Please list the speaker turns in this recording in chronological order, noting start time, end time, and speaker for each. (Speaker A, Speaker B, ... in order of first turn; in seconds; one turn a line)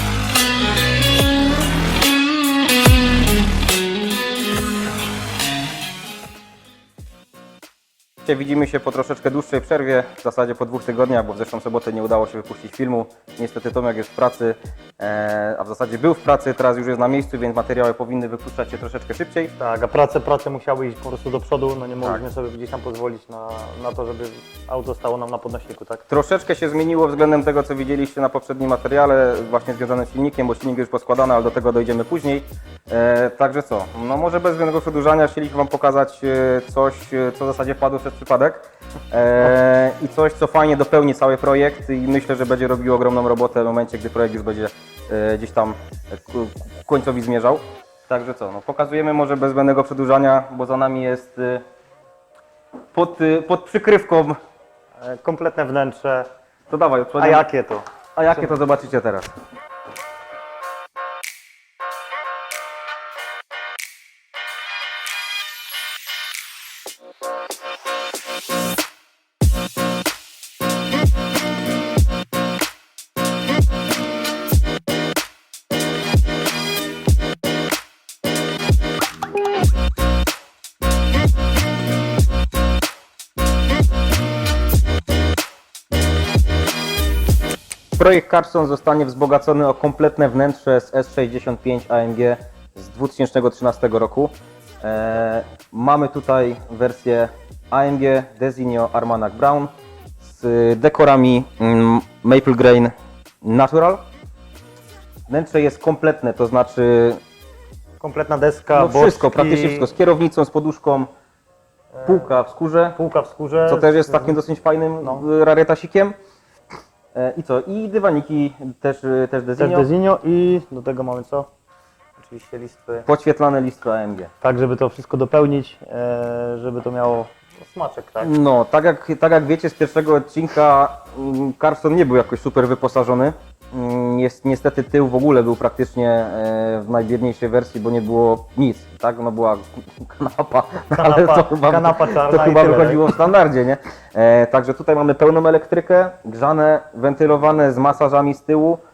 Speaker A: 8.2-19.5
Speaker B: 19.6-26.0
Speaker A: 26.1-51.6
Speaker A: 52.9-54.4
Speaker B: 55.0-56.3
Speaker A: 56.7-57.4
Speaker B: 57.2-58.5
Speaker A: 58.2-59.3
Speaker A: 88.0-104.0
Speaker A: 105.3-107.2
Speaker B: 108.0-109.9
Speaker A: 108.8-111.1
Speaker B: 111.9-112.3
Speaker A: 112.0-113.0
Speaker B: 113.0-114.4
Speaker A: 113.7-116.1
Speaker B: 115.0-115.3
Speaker A: 117.1-119.9
Speaker B: 119.6-121.5
Speaker B: 122.2-123.1
Speaker A: 123.0-124.3
Speaker B: 124.4-128.3
Speaker A: 128.2-148.8
Speaker B: 140.9-143.0